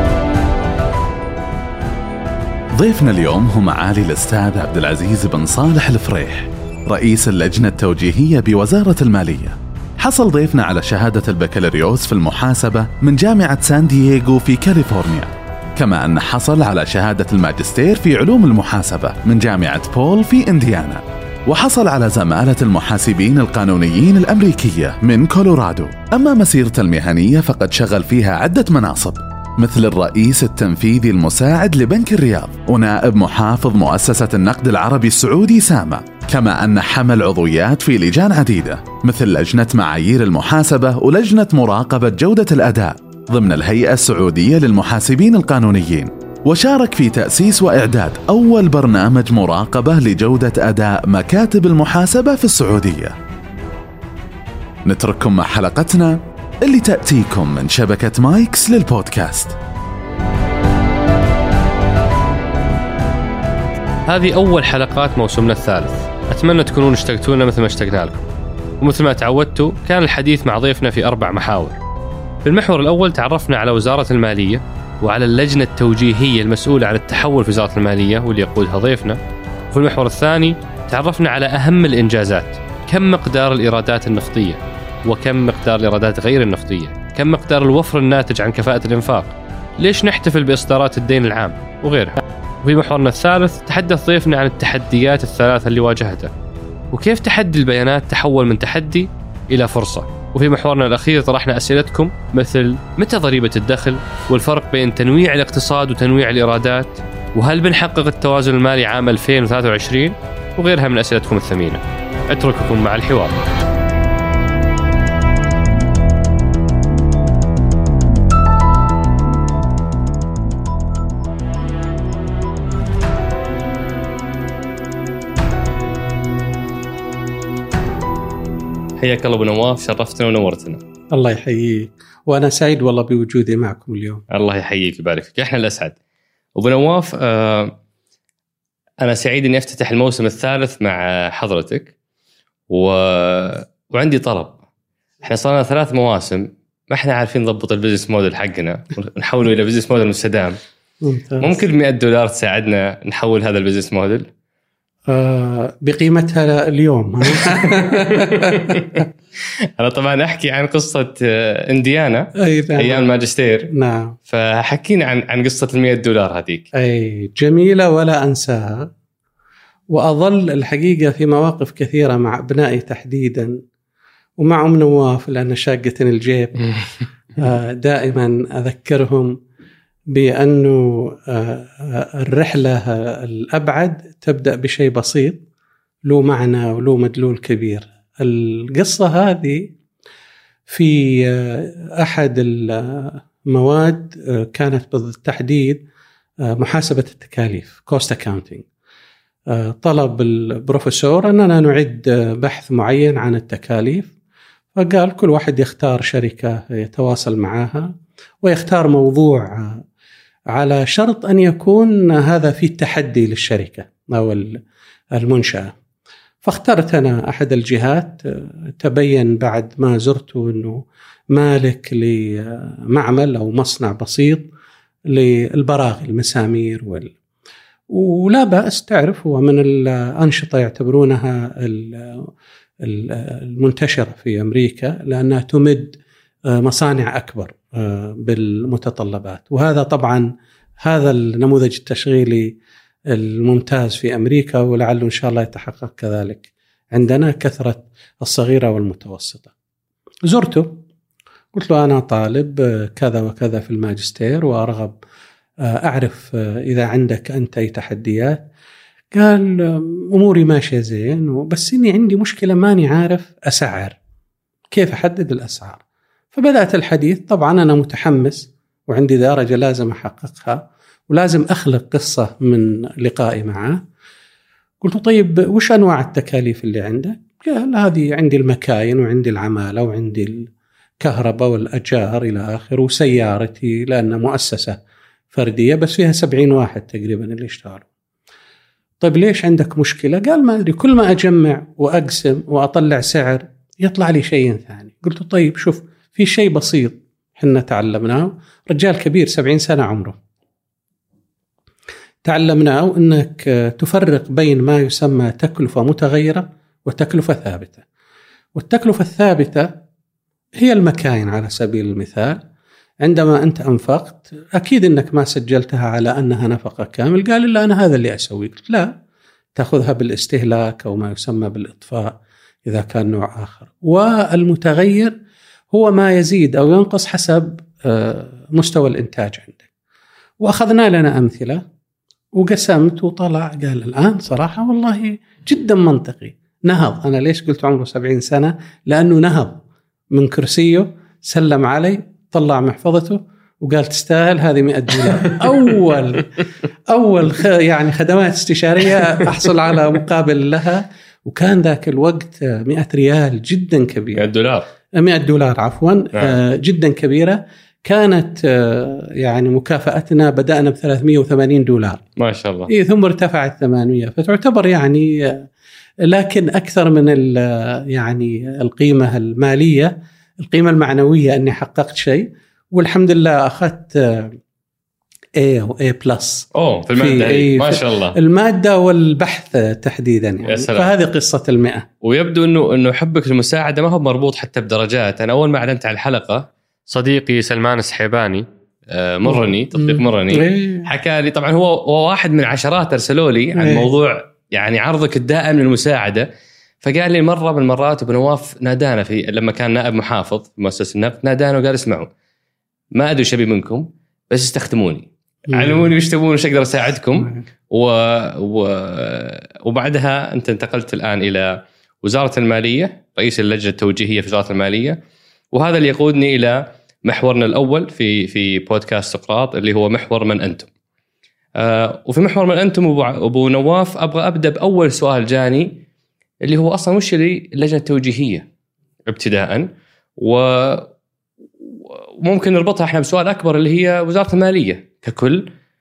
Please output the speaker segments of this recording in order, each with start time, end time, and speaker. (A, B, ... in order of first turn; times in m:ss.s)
0:02.8-0:53.2 A
0:54.8-0:59.6 A
1:04.1-1:08.2 B
1:08.8-1:11.8 B
1:12.4-1:19.2 B
1:19.7-1:36.3 B
1:36.9-1:53.4 B
2:09.0-2:10.8 B
2:11.1-2:14.2 C
2:14.3-2:16.0 B
2:16.6-2:17.8 B
2:19.0-2:21.9 B
2:22.7-2:24.6 B
2:25.2-2:30.6 B
2:31.0-2:31.6 C
2:31.4-2:34.3 B
2:35.1-2:39.0 C
2:37.4-2:39.1 B
2:39.6-2:43.7 B
2:42.4-2:43.1 C
2:43.7-2:44.2 C
2:44.3-2:46.7 B
2:46.7-2:48.9 C
2:49.9-2:53.6 C
2:54.4-2:56.7 C
2:57.4-2:59.4 C
3:00.1-3:05.4 C
3:06.1-3:09.8 C
3:10.7-3:15.8 C
3:16.5-3:18.7 C
3:19.5-3:24.1 C
3:24.8-3:29.8 C
3:30.5-3:34.6 C
3:35.1-3:35.7 C
3:36.4-3:44.5 C
3:45.1-3:47.1 C
3:47.9-3:52.3 C
3:52.8-4:00.3 C
4:00.8-4:02.5 C
4:03.1-4:09.5 C
4:10.3-4:10.8 C
4:11.5-4:15.0 C
4:15.7-4:18.4 C
4:19.1-4:24.0 C
4:24.7-4:25.8 C
4:26.3-4:33.8 C
4:34.8-4:40.5 C
4:41.0-4:44.8 C
4:45.3-4:47.9 C
4:49.0-5:00.2 C
5:02.2-5:07.8 C
5:08.6-5:09.7 C
5:10.6-5:12.4 C
5:13.0-5:18.9 C
5:19.6-5:25.2 C
5:25.7-5:29.7 C
5:30.4-5:31.6 C
5:32.3-5:39.6 C
5:40.1-5:46.3 C
5:46.9-5:54.3 C
5:54.2-5:54.7 B
5:55.0-6:02.0 C
6:02.2-6:02.7 B
6:02.7-6:05.5 C
6:06.1-6:14.4 C
6:15.4-6:21.9 C
6:16.5-6:18.2 B
6:20.5-6:20.9 B
6:22.0-6:36.3 B
6:29.3-6:30.9 C
6:33.6-6:33.9 C
6:36.8-6:42.1 B
6:43.0-6:51.5 B
6:45.5-6:45.9 C
6:52.0-6:55.0 B
6:55.5-7:00.7 B
7:01.6-7:05.8 B
7:06.4-7:08.5 B
7:09.1-7:10.9 B
7:11.6-7:15.5 B